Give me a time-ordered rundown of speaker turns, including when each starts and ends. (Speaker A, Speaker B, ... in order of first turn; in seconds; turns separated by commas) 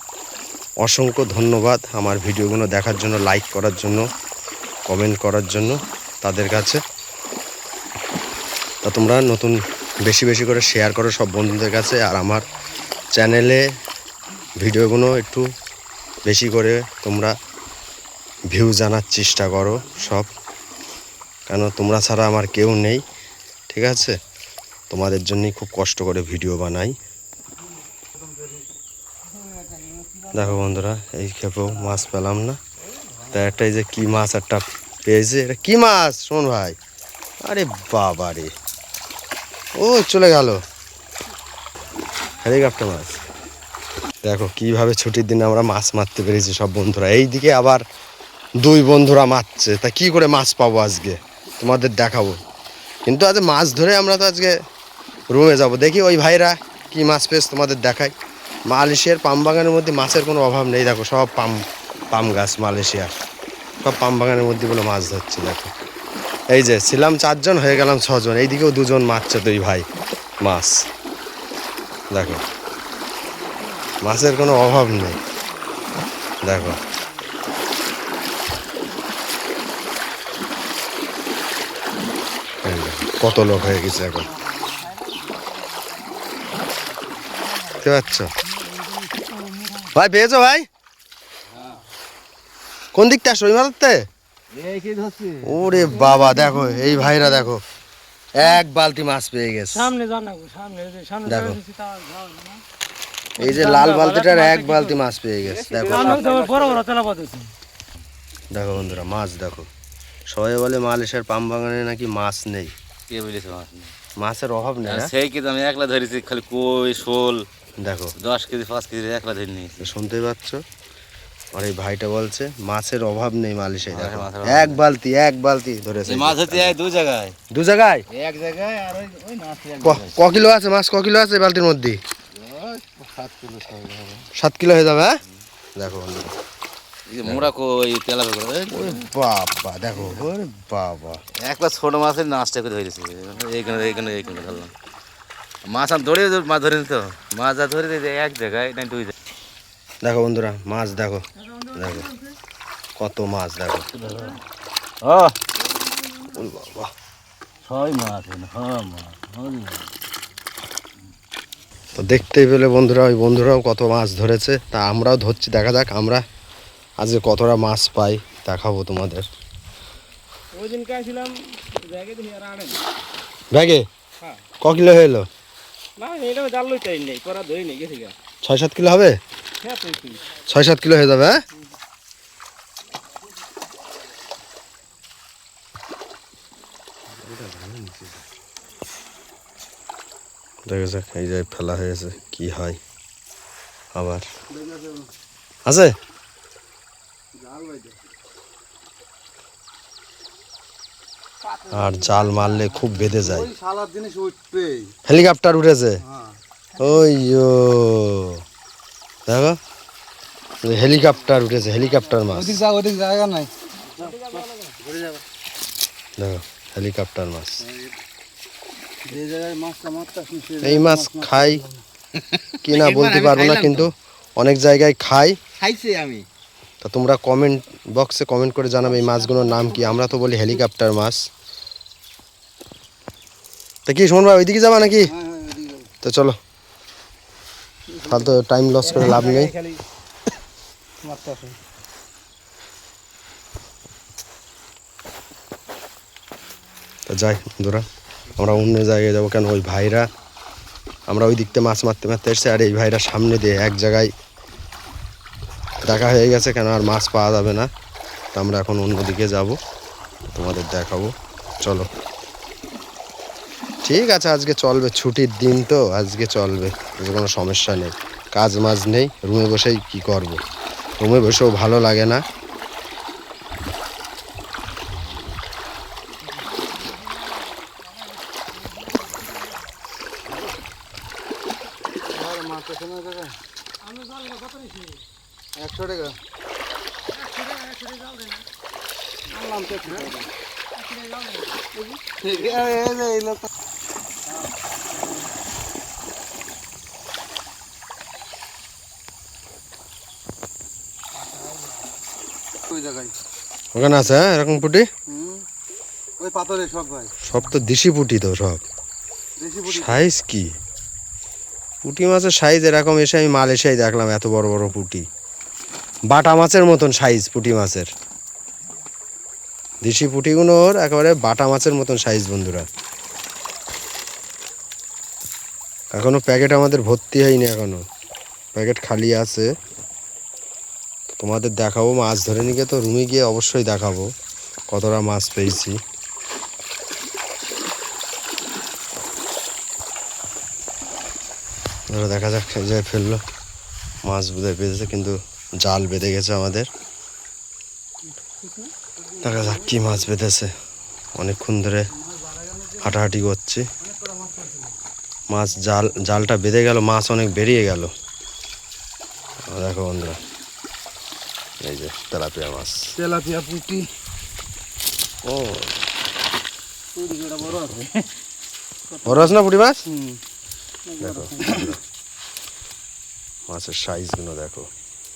Speaker A: 0.8-4.0, Speaker A: 4.9-6.8, Speaker A: 8.8-12.4, Speaker A: 13.1-13.6, Speaker A: 14.6-15.5, Speaker A: 16.2-17.3, Speaker A: 18.5-20.3, Speaker A: 21.5-23.0, Speaker A: 23.7-24.1, Speaker A: 24.9-26.9, Speaker B: 28.1-28.5, Speaker B: 29.8-30.4, Speaker A: 30.3-32.6, Speaker A: 33.3-36.8, Speaker A: 37.4-38.5, Speaker A: 39.8-40.6, Speaker A: 42.4-43.2, Speaker A: 44.2-47.8, Speaker A: 48.6-52.4, Speaker A: 53.0-54.5, Speaker A: 55.3-58.1, Speaker A: 58.7-61.6, Speaker A: 62.1-63.1, Speaker A: 63.8-65.7, Speaker A: 66.5-69.8, Speaker A: 70.4-70.8, Speaker A: 72.1-72.4, Speaker A: 74.0-75.2, Speaker A: 76.4-76.8, Speaker A: 82.6-84.3, Speaker B: 83.8-84.2, Speaker A: 87.7-88.3, Speaker C: 89.0-89.9, Speaker A: 89.9-90.7, Speaker A: 92.9-94.0, Speaker D: 94.5-96.0, Speaker A: 95.4-97.6, Speaker A: 98.3-99.9, Speaker C: 99.7-102.6, Speaker A: 101.2-101.6, Speaker A: 103.4-106.3, Speaker C: 103.4-104.9, Speaker D: 105.5-106.8, Speaker C: 105.9-107.5, Speaker A: 108.5-109.7, Speaker A: 110.3-112.7, Speaker D: 113.1-113.9, Speaker A: 114.2-115.1, Speaker D: 114.8-117.5, Speaker A: 117.8-118.2, Speaker D: 118.2-119.9, Speaker A: 119.8-120.6, Speaker A: 121.5-126.8, Speaker D: 123.9-124.8, Speaker D: 126.0-127.4, Speaker A: 127.5-128.0, Speaker D: 128.1-130.2, Speaker A: 129.8-132.0, Speaker D: 132.4-134.3, Speaker A: 134.4-135.2, Speaker A: 135.8-136.3, Speaker D: 137.1-139.1, Speaker A: 137.2-137.5, Speaker A: 138.7-141.2, Speaker D: 141.4-144.7, Speaker D: 145.6-149.1, Speaker A: 150.0-152.1, Speaker C: 151.6-152.0, Speaker A: 153.0-153.9, Speaker D: 153.9-154.4, Speaker D: 155.0-155.4, Speaker C: 155.9-156.3, Speaker A: 156.3-156.9, Speaker D: 157.7-159.8, Speaker A: 161.9-166.2, Speaker A: 167.0-169.3, Speaker D: 170.5-172.8, Speaker A: 173.5-173.8, Speaker A: 174.6-175.3, Speaker D: 176.0-178.1, Speaker A: 178.4-179.2, Speaker D: 179.6-180.2, Speaker A: 180.4-181.4, Speaker A: 187.2-188.1, Speaker A: 190.7-192.8, Speaker A: 193.9-194.2, Speaker B: 194.5-195.1, Speaker A: 195.7-195.9, Speaker B: 197.3-198.0, Speaker B: 201.6-204.9, Speaker A: 201.7-203.5, Speaker A: 205.0-206.0, Speaker A: 206.8-208.4, Speaker A: 209.3-209.6, Speaker A: 210.6-212.6, Speaker B: 212.3-213.5, Speaker D: 214.1-214.4, Speaker B: 214.1-215.2, Speaker A: 216.2-217.6, Speaker B: 219.0-221.8, Speaker A: 220.6-221.6, Speaker D: 222.5-223.9, Speaker A: 222.6-225.4, Speaker D: 225.6-226.2, Speaker A: 226.8-231.2, Speaker A: 233.8-235.1, Speaker B: 235.1-235.9, Speaker A: 236.0-236.4, Speaker A: 238.0-239.5, Speaker B: 241.0-241.5, Speaker A: 247.1-247.8, Speaker A: 248.4-250.1, Speaker A: 251.1-254.1, Speaker A: 255.8-257.7, Speaker A: 258.3-259.6, Speaker A: 260.3-261.9, Speaker A: 263.8-270.4, Speaker A: 271.0-272.2, Speaker C: 278.8-279.5, Speaker B: 282.1-283.4, Speaker C: 283.9-285.0, Speaker B: 285.6-286.2, Speaker C: 287.1-288.4, Speaker B: 289.3-290.3, Speaker C: 290.8-291.6, Speaker B: 292.0-293.4, Speaker B: 302.7-303.1, Speaker A: 303.7-304.9, Speaker B: 305.1-305.4, Speaker B: 306.2-307.1, Speaker A: 307.2-308.6, Speaker B: 309.4-310.0, Speaker A: 309.7-310.5, Speaker A: 311.8-315.0, Speaker A: 316.1-317.9, Speaker A: 319.8-322.6, Speaker A: 325.9-327.8, Speaker A: 328.5-329.5, Speaker A: 331.2-334.1, Speaker A: 334.7-335.8, Speaker A: 341.9-343.2, Speaker A: 344.0-346.7, Speaker B: 349.0-349.9, Speaker A: 349.2-350.5, Speaker A: 351.1-351.9, Speaker B: 352.1-352.9, Speaker A: 352.8-353.6, Speaker B: 353.8-354.7, Speaker A: 355.3-357.9, Speaker A: 359.4-360.2, Speaker A: 361.6-362.8, Speaker B: 363.0-363.9, Speaker A: 365.2-365.7, Speaker B: 366.9-367.9, Speaker B: 368.9-369.3, Speaker A: 369.0-369.8, Speaker B: 370.9-371.7, Speaker A: 371.0-371.8, Speaker A: 373.5-374.7